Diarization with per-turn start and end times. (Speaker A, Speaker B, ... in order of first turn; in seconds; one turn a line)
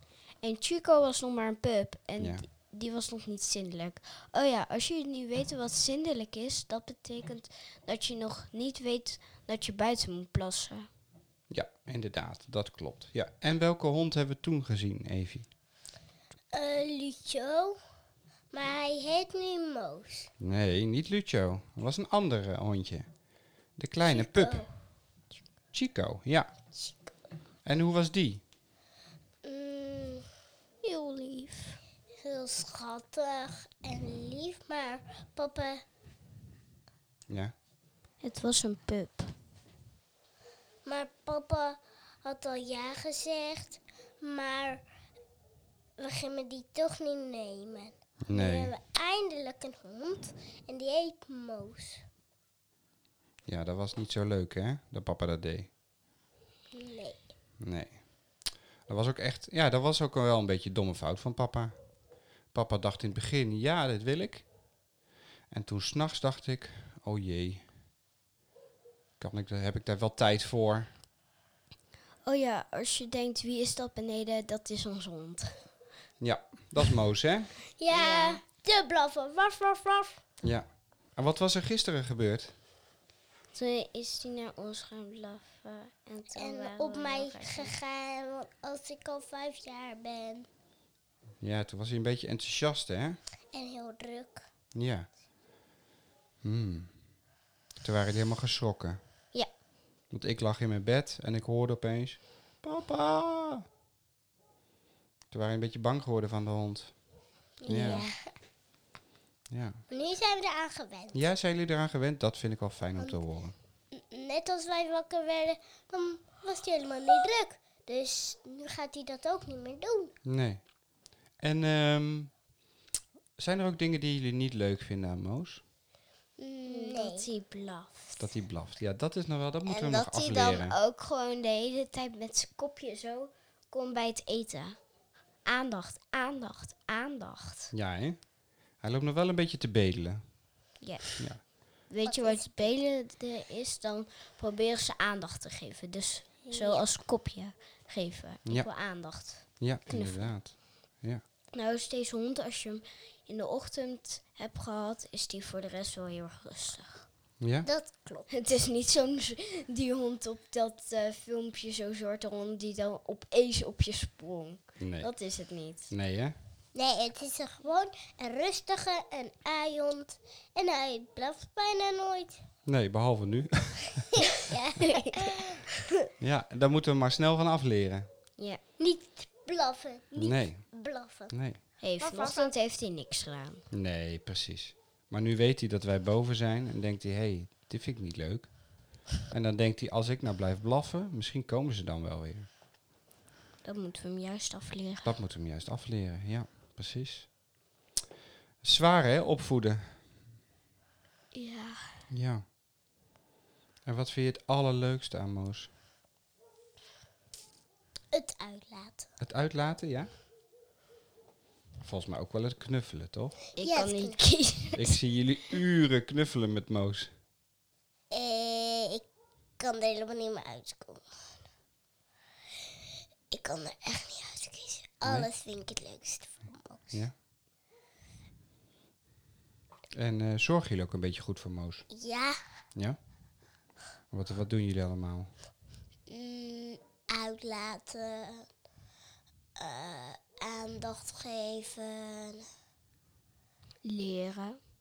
Speaker A: 0.4-10.9
Speaker B: 2.2-2.4
Speaker B: 11.5-15.5
Speaker C: 16.5-17.8
Speaker C: 18.5-20.3
Speaker B: 20.4-23.1
Speaker B: 23.8-24.6
Speaker C: 24.0-24.7
Speaker B: 25.7-26.5
Speaker C: 26.8-27.1
Speaker B: 27.6-28.4
Speaker C: 29.4-30.2
Speaker A: 30.8-31.8
Speaker C: 32.2-35.8
Speaker A: 38.2-39.3
Speaker C: 40.9-44.8
Speaker C: 46.0-52.0
Speaker B: 48.3-48.7
Speaker B: 53.5-55.7
Speaker C: 56.7-57.2
Speaker B: 57.6-58.0
Speaker B: 58.9-61.7
Speaker B: 62.5-64.5
Speaker B: 65.5-67.7
Speaker B: 69.2-70.9
Speaker A: 72.2-75.6
Speaker B: 76.2-77.5
Speaker C: 77.8-80.2
Speaker A: 77.9-78.4
Speaker B: 80.4-82.5
Speaker A: 83.5-87.7
Speaker C: 86.3-90.5
Speaker B: 91.4-93.2
Speaker C: 93.5-94.4
Speaker B: 94.7-95.1
Speaker B: 96.4-96.9
Speaker B: 97.8-99.0
Speaker B: 100.1-103.7
Speaker B: 105.3-106.9
Speaker C: 107.6-108.2
Speaker B: 107.7-108.1
Speaker A: 107.7-108.1
Speaker B: 109.5-109.8
Speaker C: 109.9-111.2
Speaker B: 111.1-113.5
Speaker C: 113.9-120.1
Speaker B: 120.2-120.6
Speaker B: 121.4-122.3
Speaker B: 123.4-125.6
Speaker C: 126.4-127.3
Speaker A: 126.7-128.3
Speaker B: 128.2-130.8
Speaker A: 129.7-134.8
Speaker A: 135.4-137.7
Speaker B: 137.7-138.2
Speaker B: 138.8-140.2
Speaker A: 140.8-141.1
Speaker A: 141.9-150.3
Speaker C: 142.1-142.7
Speaker C: 146.4-146.9
Speaker B: 149.6-151.2
Speaker A: 151.5-157.1
Speaker B: 157.4-157.7
Speaker C: 157.7-158.3
Speaker A: 158.3-165.9
Speaker B: 164.8-165.1
Speaker B: 165.9-166.4
Speaker C: 166.8-172.4
Speaker B: 172.7-174.1
Speaker C: 174.3-175.6
Speaker A: 174.9-175.3
Speaker B: 176.2-178.1
Speaker C: 178.8-181.3
Speaker B: 180.2-180.7
Speaker B: 181.3-181.6
Speaker A: 181.8-183.6
Speaker C: 182.0-182.5
Speaker B: 183.7-188.5
Speaker B: 189.2-192.5
Speaker A: 193.6-195.2
Speaker B: 195.0-197.3
Speaker B: 198.6-199.9
Speaker A: 201.3-201.8
Speaker B: 202.1-202.4
Speaker B: 203.9-205.7
Speaker C: 208.1-209.1
Speaker B: 209.2-210.1
Speaker B: 211.8-213.4
Speaker A: 213.6-215.0
Speaker C: 213.6-214.2
Speaker B: 214.7-217.1
Speaker C: 218.1-219.0
Speaker C: 219.6-221.0
Speaker C: 223.3-227.0
Speaker B: 225.0-225.3
Speaker B: 229.9-231.9
Speaker C: 231.9-232.3
Speaker B: 234.1-235.3
Speaker C: 236.1-238.5
Speaker C: 239.6-242.4
Speaker A: 243.8-244.6